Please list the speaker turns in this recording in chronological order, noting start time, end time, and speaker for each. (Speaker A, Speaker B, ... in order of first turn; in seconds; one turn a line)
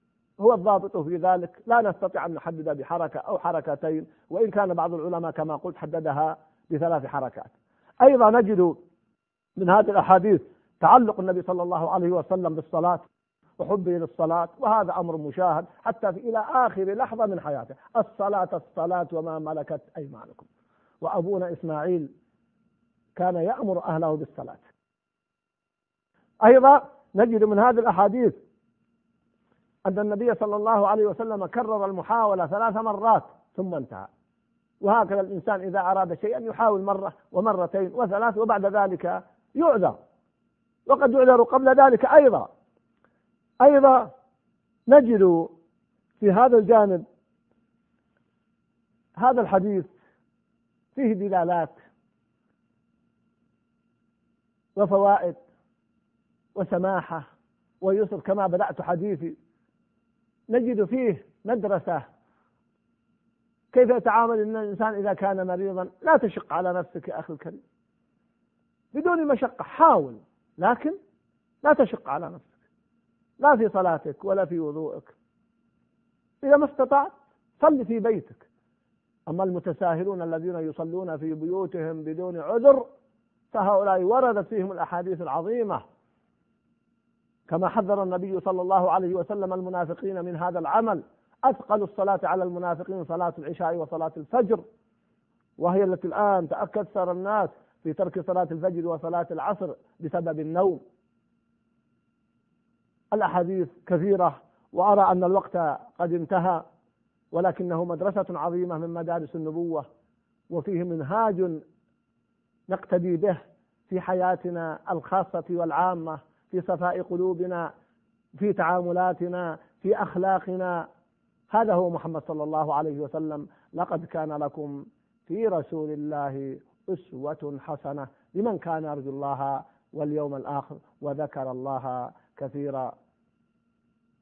Speaker A: 0.4-8.8
Speaker A: 9.6-13.1
Speaker A: 13.6-20.5
Speaker A: 21.0-22.1
Speaker A: 23.2-24.7
Speaker A: 26.4-28.4
Speaker A: 29.9-34.1
Speaker A: 34.8-40.0
Speaker A: 40.9-42.5
Speaker A: 43.6-44.1
Speaker A: 44.9-45.5
Speaker A: 46.2-47.1
Speaker A: 49.2-49.9
Speaker A: 51.0-51.8
Speaker A: 54.8-55.4
Speaker A: 56.5-57.3
Speaker A: 57.8-59.4
Speaker A: 60.5-62.1
Speaker A: 63.7-67.6
Speaker A: 68.9-71.0
Speaker A: 71.6-72.5
Speaker A: 73.4-75.2
Speaker A: 76.4-78.5
Speaker A: 79.3-82.9
Speaker A: 83.5-85.8
Speaker A: 87.5-94.6
Speaker A: 95.6-100.8
Speaker A: 103.1-106.7
Speaker A: 107.3-109.9
Speaker A: 110.5-111.6
Speaker A: 112.7-117.7
Speaker A: 118.4-120.9
Speaker A: 121.5-132.9